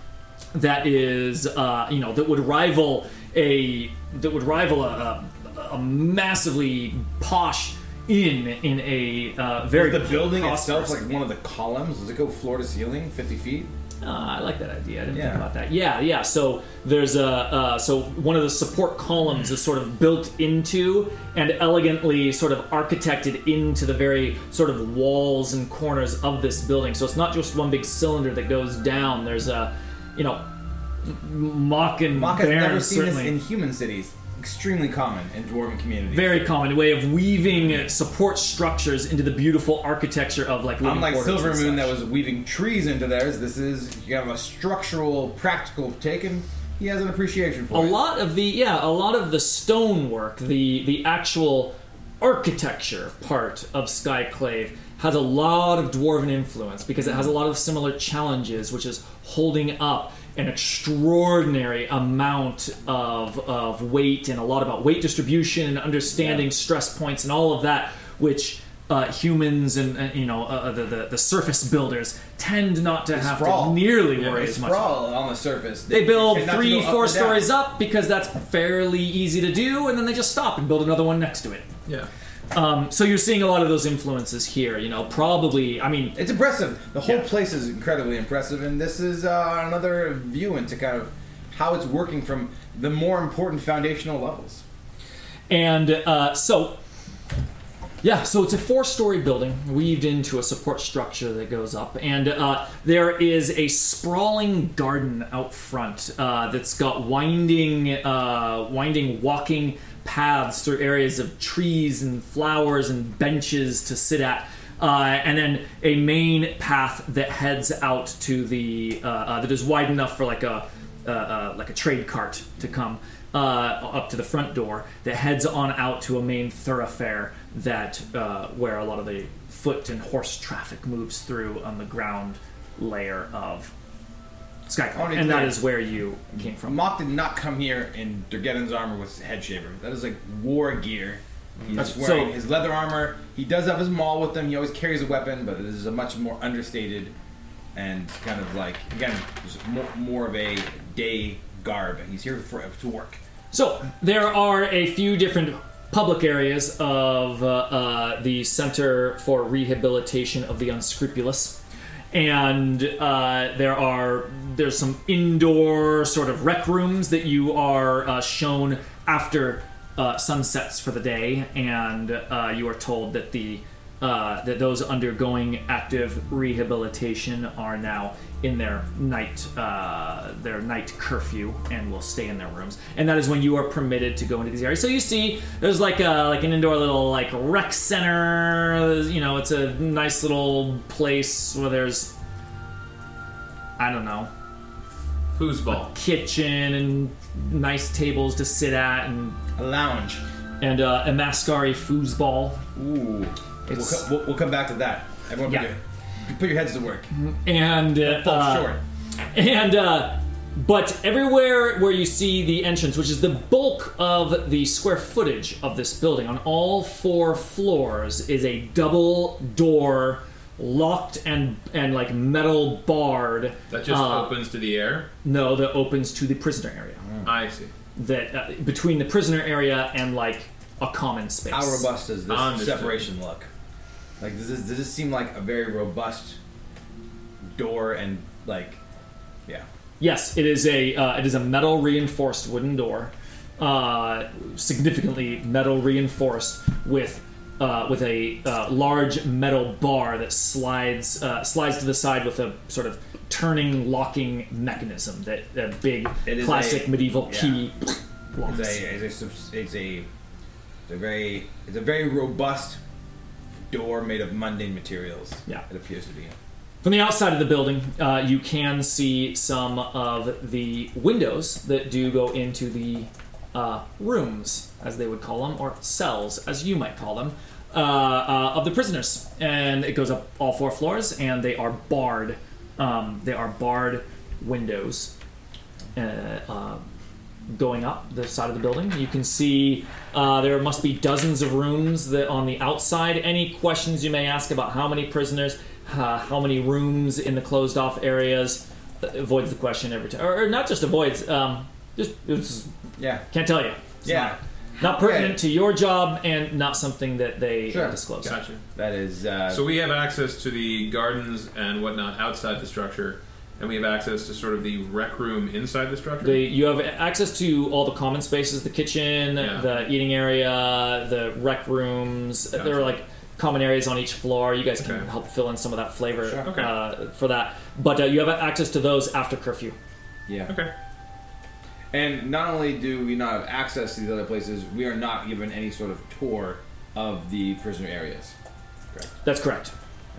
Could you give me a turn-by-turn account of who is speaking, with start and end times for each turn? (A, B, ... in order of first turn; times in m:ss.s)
0:00.5-0:11.0 A
0:09.7-0:13.7 B
0:14.0-0:30.5 A
0:15.1-0:15.5 B
0:31.0-0:33.4 A
0:32.1-0:36.6 B
0:36.1-0:42.0 A
0:40.8-0:48.0 B
0:47.7-1:15.1 A
1:06.1-1:06.5 B
1:13.1-1:17.5 B
1:15.9-1:21.7 A
1:22.5-1:26.2 A
1:26.2-1:34.6 B
1:35.5-1:36.8 A
1:38.0-2:13.7 A
2:14.7-2:16.8 A
2:14.9-2:15.8 B
2:16.4-2:27.1 B
2:21.8-2:22.4 A
2:27.7-2:33.2 B
2:33.5-2:41.6 A
2:42.1-3:12.1 A
3:13.8-3:14.3 A
3:15.4-3:15.9 C
3:15.7-3:19.4 A
3:19.6-3:20.2 B
3:20.6-3:22.6 A
3:22.8-3:27.1 B
3:23.7-3:24.0 A
3:27.1-3:28.8 A
3:28.0-3:28.8 B
3:29.3-3:44.4 A
3:43.7-3:45.1 C
3:45.2-3:47.0 A
3:47.2-3:47.7 C
3:48.0-3:51.9 A
3:51.5-3:53.5 B
3:52.3-3:53.1 C
3:54.2-3:56.4 B
3:57.6-3:58.8 B
4:00.0-4:18.8 A
4:16.3-4:17.6 B
4:18.4-4:20.1 B
4:20.9-4:22.8 B
4:23.7-4:26.3 B
4:26.8-4:45.1 A
4:46.0-4:46.8 A
4:47.5-5:02.7 A
5:03.0-5:03.2 B
5:03.3-5:08.4 A
5:04.0-5:05.4 B
5:07.7-5:08.0 B
5:08.2-5:08.6 C
5:08.8-5:09.7 B
5:09.5-5:16.5 C
5:16.2-5:29.8 A
5:19.4-5:19.7 C
5:22.6-5:23.0 C
5:24.8-5:25.1 C
5:26.2-5:26.5 B
5:26.4-5:26.7 C
5:30.3-5:30.6 B
5:30.5-5:30.7 C
5:31.9-5:38.3 B
5:39.2-5:39.7 A